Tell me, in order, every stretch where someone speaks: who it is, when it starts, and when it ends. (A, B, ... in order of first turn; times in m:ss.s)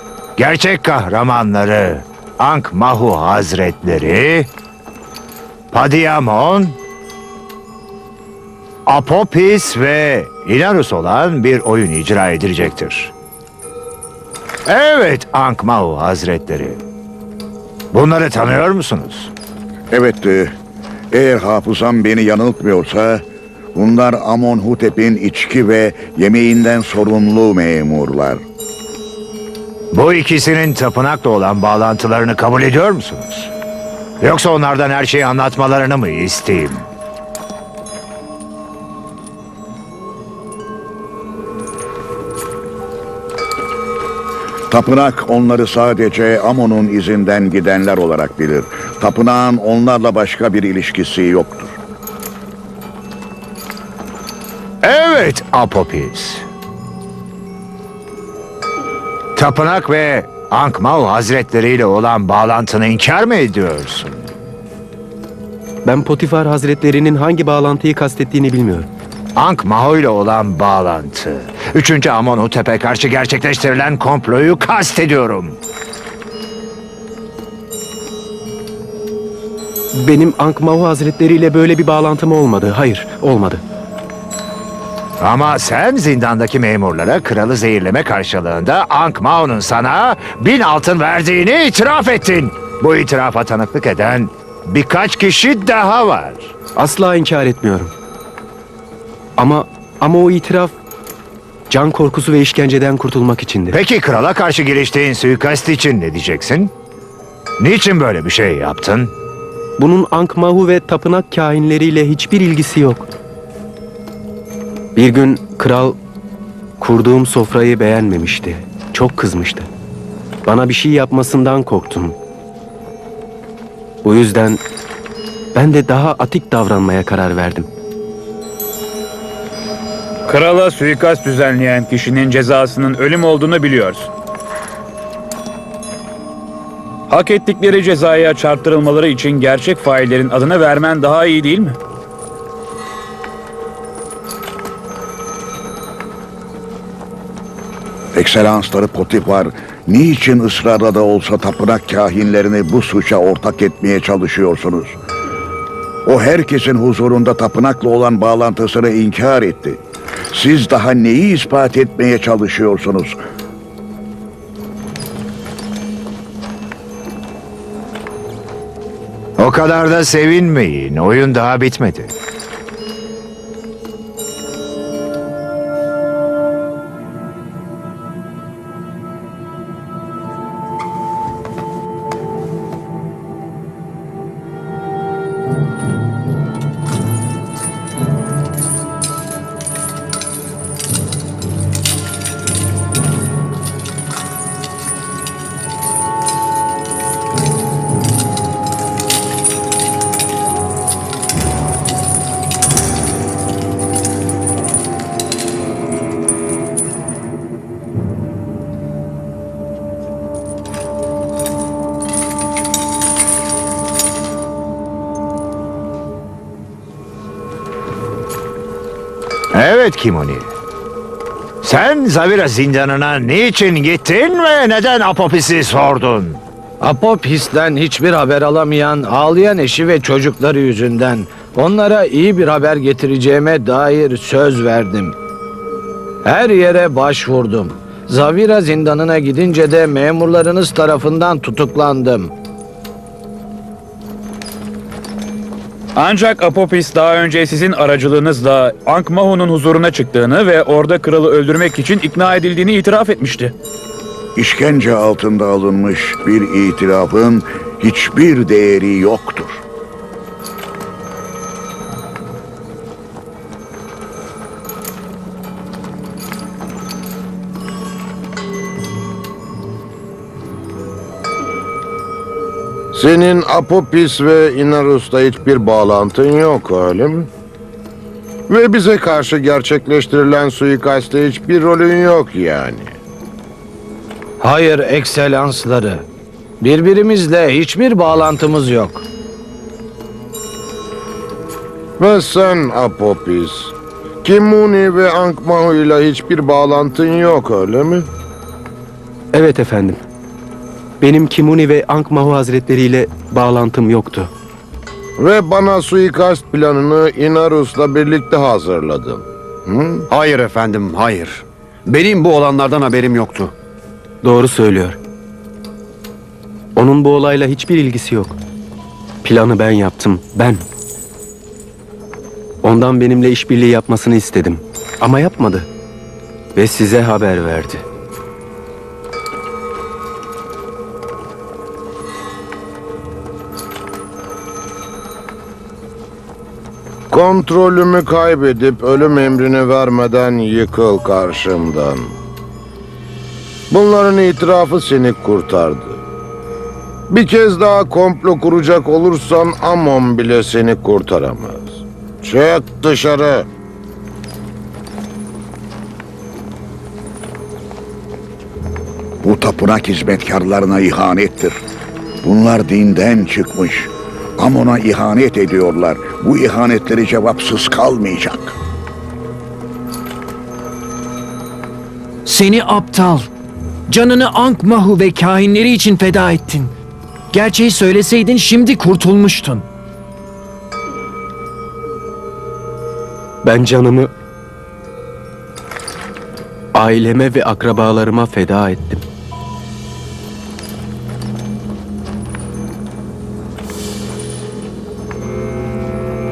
0:00.4-0:04.5 A
0:05.7-0:06.8 A
0:08.8-0:13.1 A
0:14.7-0:16.8 A
0:17.9-0:19.3 A
0:19.9-0:20.5 B
0:21.1-0:23.2 B
0:23.7-0:28.4 B
0:29.9-0:33.5 A
0:34.2-0:36.8 A
0:44.7-0:51.8 B
0:54.8-0:56.4 A
0:59.4-1:04.3 A
1:05.8-1:08.9 C
1:09.4-1:15.6 A
1:19.9-1:23.6 C
1:25.2-1:36.5 A
1:36.8-1:37.9 C
1:39.4-1:40.8 C
1:41.7-1:43.8 C
1:43.7-1:46.7 A
1:47.6-1:49.1 A
1:49.8-1:53.1 C
1:54.9-1:56.0 C
1:56.8-1:59.7 C
2:00.4-2:02.2 C
2:04.0-2:04.6 C
2:05.5-2:07.7 C
2:10.3-2:14.1 D
2:17.1-2:21.8 D
2:28.1-2:35.0 B
2:36.0-2:39.8 B
2:40.3-2:43.2 B
2:49.4-2:52.1 A
3:39.5-3:40.5 A
3:41.6-3:46.4 A
3:46.8-3:55.2 E
3:56.2-4:02.3 E
4:06.0-4:13.5 D
4:14.4-4:19.6 B
4:32.9-4:37.3 F
4:38.5-4:42.9 F
4:44.4-4:46.0 E
4:46.6-4:49.0 E
4:52.0-4:58.1 F
4:59.3-5:00.0 C
5:01.0-5:04.3 C
5:05.2-5:10.0 F
5:10.1-5:13.5 G
5:14.2-5:15.0 C
5:16.8-5:18.4 C
5:19.2-5:20.6 C
5:22.6-5:25.7 C
5:26.5-5:27.8 C
5:37.1-5:42.1 F
5:43.7-5:46.0 F
5:47.1-5:53.4 F
5:59.2-6:01.6 B
6:02.2-6:08.6 B
6:12.2-6:13.3 H
6:13.9-6:16.7 H
6:17.3-6:19.7 H
6:23.4-6:24.1 C
6:26.7-6:29.0 C